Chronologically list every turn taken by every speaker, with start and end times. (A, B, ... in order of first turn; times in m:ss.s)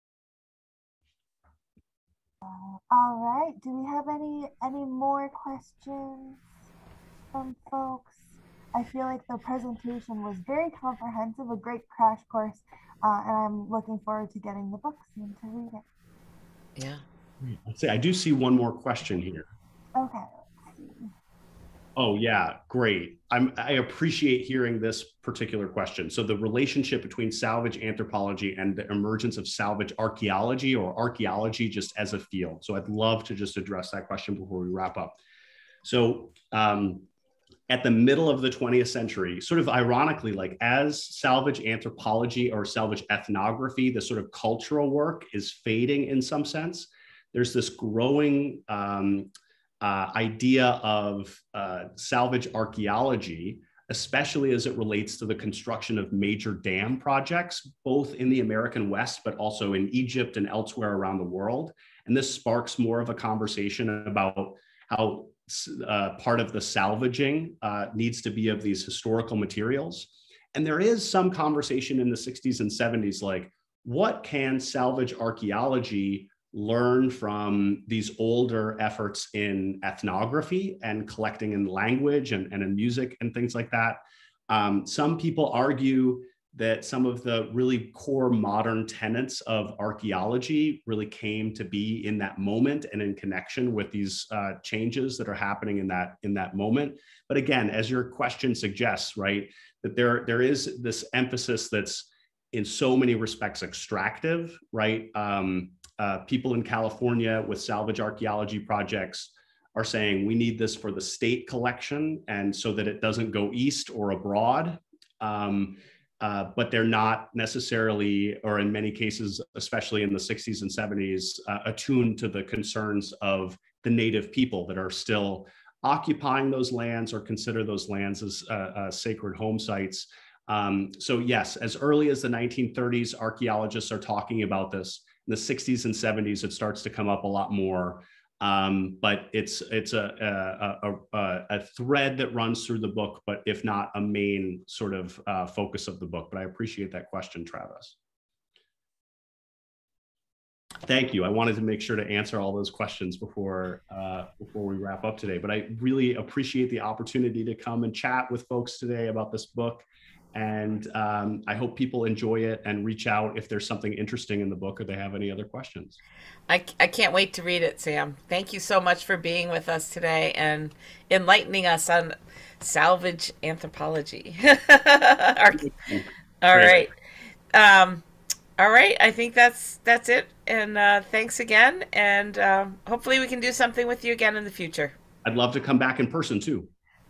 0:02.5-0:06.4 A
0:07.3-0:15.8 A
0:16.8-0:17.0 B
0:17.4-0:19.5 C
0:20.0-0:21.1 A
0:22.0-0:35.2 C
0:35.8-0:37.1 C
0:37.7-1:24.0 C
1:24.5-2:28.0 C
2:30.9-2:46.0 C
2:46.5-2:55.7 B
2:55.6-2:56.9 C
2:56.4-2:56.9 B
2:57.5-2:58.0 B
2:58.6-3:05.0 B
3:05.2-3:06.7 C